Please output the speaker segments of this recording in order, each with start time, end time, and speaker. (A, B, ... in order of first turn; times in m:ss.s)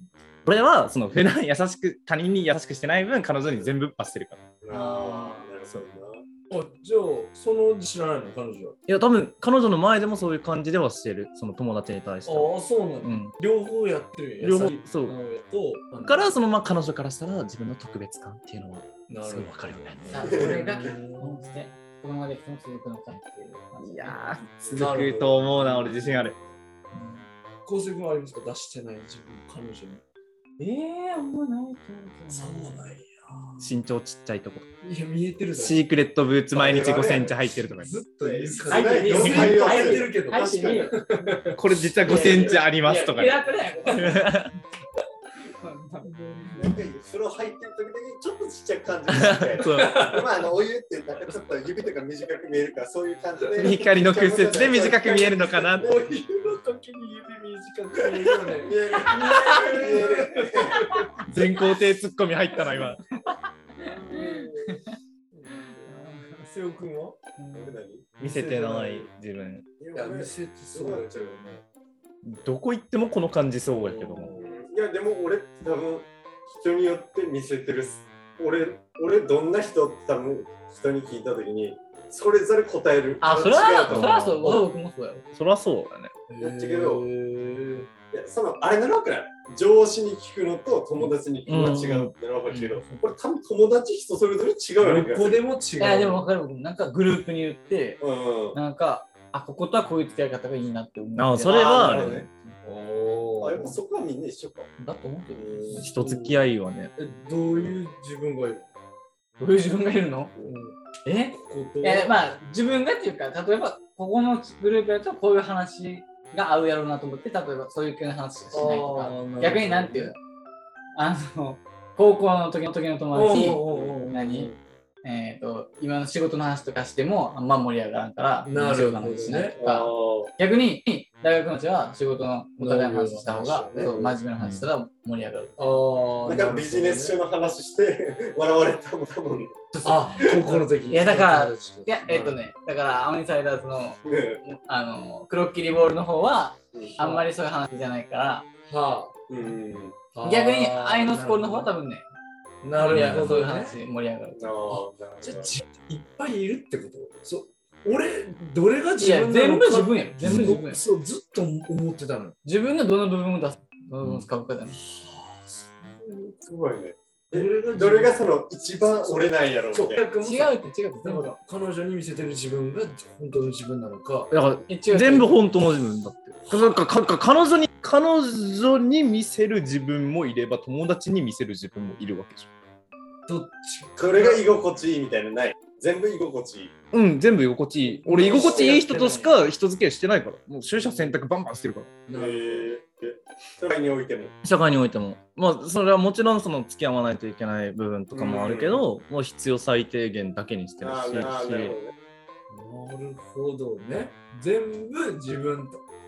0:00.4-0:04.4 A
0:04.6-0:06.2 B
0:04.7-0:05.5 C
0:06.5-0:08.8 D
0:08.9-0:13.3 A
0:12.2-0:16.3 D
0:14.4-0:15.2 A
0:16.0-0:20.0 A
0:19.1-0:21.4 D
0:20.1-0:24.8 C
0:20.2-0:20.7 B
0:23.8-0:26.4 A
0:24.7-0:26.2 D
0:27.6-0:30.0 D
0:30.6-0:33.0 C
0:32.4-0:33.7 D
0:33.6-0:34.7 A
0:34.8-0:35.9 D
0:35.5-0:37.9 A
0:36.5-0:37.4 B
0:37.8-0:41.6 D
0:38.2-0:40.9 B
0:38.7-0:40.9 C
0:39.1-0:39.6 A
0:41.5-0:44.5 A
0:42.0-0:44.5 C
0:45.4-0:46.1 C
0:46.1-0:46.5 D
0:46.5-0:56.1 B
0:49.1-0:50.0 A
0:49.8-0:50.2 D
0:53.6-0:55.9 A
0:55.8-0:58.7 D
0:57.9-1:00.9 B
0:59.0-1:00.3 C
0:59.3-0:59.6 A
0:59.5-1:01.2 D
1:01.2-1:03.0 A
1:02.8-1:05.0 C
1:03.8-1:07.2 D
1:05.5-1:06.5 C
1:07.4-1:07.8 C
1:07.5-1:08.1 B
1:08.2-1:09.1 D
1:08.2-1:09.7 A
1:09.8-1:11.2 B
1:09.9-1:11.6 D
1:12.2-1:14.3 A
1:13.8-1:14.4 D
1:14.3-1:24.1 B
1:23.2-1:25.2 C
1:23.8-1:24.5 A
1:25.3-1:26.1 A
1:26.3-1:27.9 D
1:26.4-1:27.0 B
1:28.1-1:35.4 B
1:31.5-1:32.1 A
1:32.5-1:32.8 C
1:34.8-1:36.3 D
1:35.8-1:38.0 C
1:38.0-1:38.6 B
1:38.5-1:42.0 C
1:41.2-1:42.3 A
1:41.5-1:42.3 B
1:42.6-1:43.8 D
1:43.4-1:44.7 B
1:44.8-1:45.9 C
1:45.6-1:46.4 D
1:45.8-1:46.9 A
1:47.0-1:48.7 D
1:47.5-1:47.8 B
1:49.4-1:50.3 C
1:50.4-1:50.8 D
1:51.0-2:00.1 C
1:51.3-1:52.2 D
1:58.5-2:00.1 D
2:01.0-2:04.5 C
2:03.1-2:04.6 D
2:05.0-2:15.8 C
2:08.5-2:09.5 D
2:09.6-2:10.3 B
2:12.6-2:14.1 D
2:14.4-2:14.7 A
2:15.6-2:17.2 D
2:16.2-2:20.5 B
2:19.8-2:22.4 D
2:20.5-2:28.5 C
2:24.0-2:24.4 B
2:26.7-2:27.0 B
2:28.7-2:29.1 D
2:29.3-2:30.0 B
2:30.1-2:31.7 D
2:30.2-2:32.1 C
2:32.6-2:33.8 D
2:32.8-2:34.8 C
2:32.9-2:33.4 A
2:34.4-2:35.6 B
2:35.2-2:42.3 D
2:39.0-2:40.8 C
2:40.2-2:40.6 A
2:42.4-2:44.8 C
2:44.0-2:44.3 A
2:44.7-2:45.7 D
2:46.0-2:50.0 B
2:47.3-2:48.2 D
2:49.1-2:54.3 D
2:50.2-2:51.4 C
2:54.3-3:02.5 A
2:54.7-2:55.3 C
3:03.2-3:04.4 D
3:04.0-3:06.7 B
3:06.9-3:11.9 A
3:07.9-3:08.8 D
3:08.1-3:09.3 C
3:08.1-3:08.8 B
3:12.1-3:12.7 D
3:12.1-3:14.3 B
3:14.4-3:21.8 A
3:18.1-3:18.8 B
3:20.8-3:21.9 B
3:22.5-3:25.8 D